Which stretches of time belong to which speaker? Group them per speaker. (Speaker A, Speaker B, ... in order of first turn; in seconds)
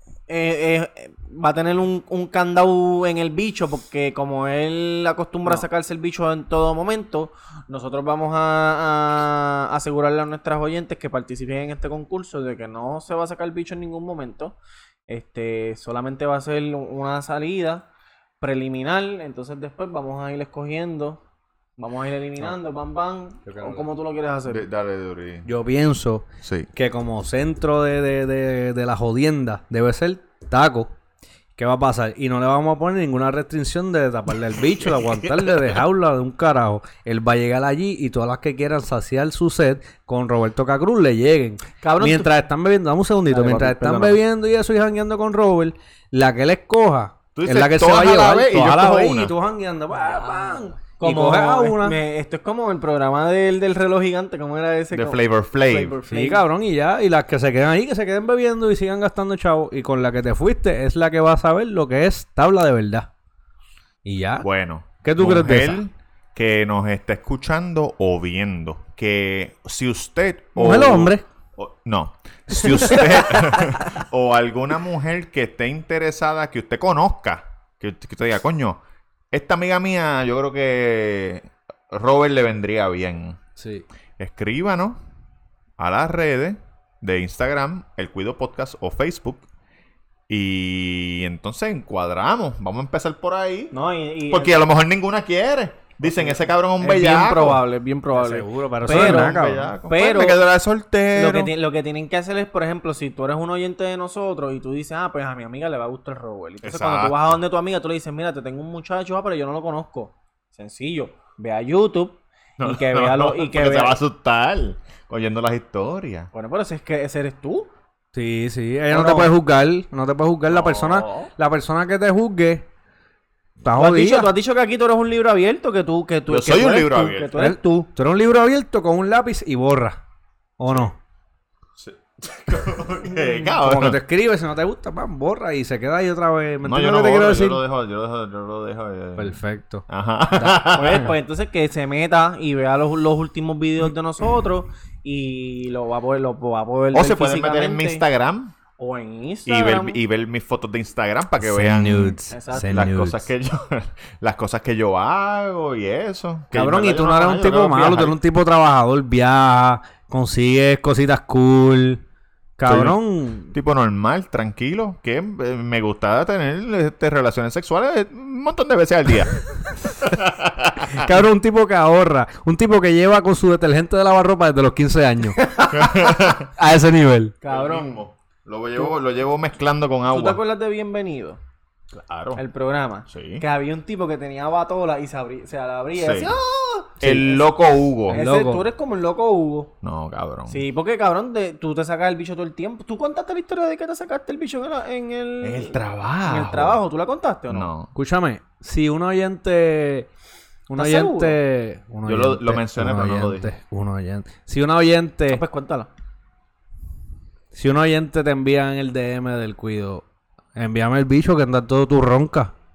Speaker A: 0.3-14.6, 15.1-17.9, 18.4-21.2, 21.8-24.7, 41.8-42.3, 43.3-44.2, 50.1-56.4, 93.7-94.6, 96.0-100.4, 101.1-114.0, 116.3-117.7, 118.9-119.3, 120.5-121.3, 123.8-127.9, 140.7-148.0, 148.8-150.0, 152.3-152.9, 177.4-178.0, 180.1-181.4, 182.3-187.5, 188.1-189.7, 190.5-197.7, 200.8-201.4, 205.3-205.9
Speaker B: 23.4-23.9, 25.4-30.9, 31.6-52.0, 56.1-63.1, 64.0-64.5, 65.0-65.8, 70.5-71.2, 72.5-73.6, 83.6-83.8, 98.1-99.7, 118.1-122.7, 123.6-124.3, 127.3-130.0, 130.6-130.9, 133.6-137.6, 139.2-141.1, 151.4-153.3, 156.5-162.0, 162.6-163.5, 170.9-175.6, 176.5-177.3, 188.1-188.7, 197.9-200.1, 200.7-205.4, 207.5-212.5
Speaker C: 24.5-25.5, 26.4-26.7, 47.3-49.3, 54.9-56.0, 64.4-78.8, 79.3-83.4, 84.2-85.0, 85.8-89.4, 90.3-93.7, 94.3-97.6, 98.9-101.5, 106.6-107.4, 112.6-116.3, 126.3-127.3, 131.8-134.0, 136.6-141.1, 146.9-148.5, 149.4-158.1, 162.6-163.0, 163.5-171.1, 175.7-176.5, 177.5-180.4, 181.9-182.4, 183.1-183.4, 185.9-186.3, 187.0-188.2, 189.8-190.6, 195.4-196.8, 197.5-197.9, 202.1-203.5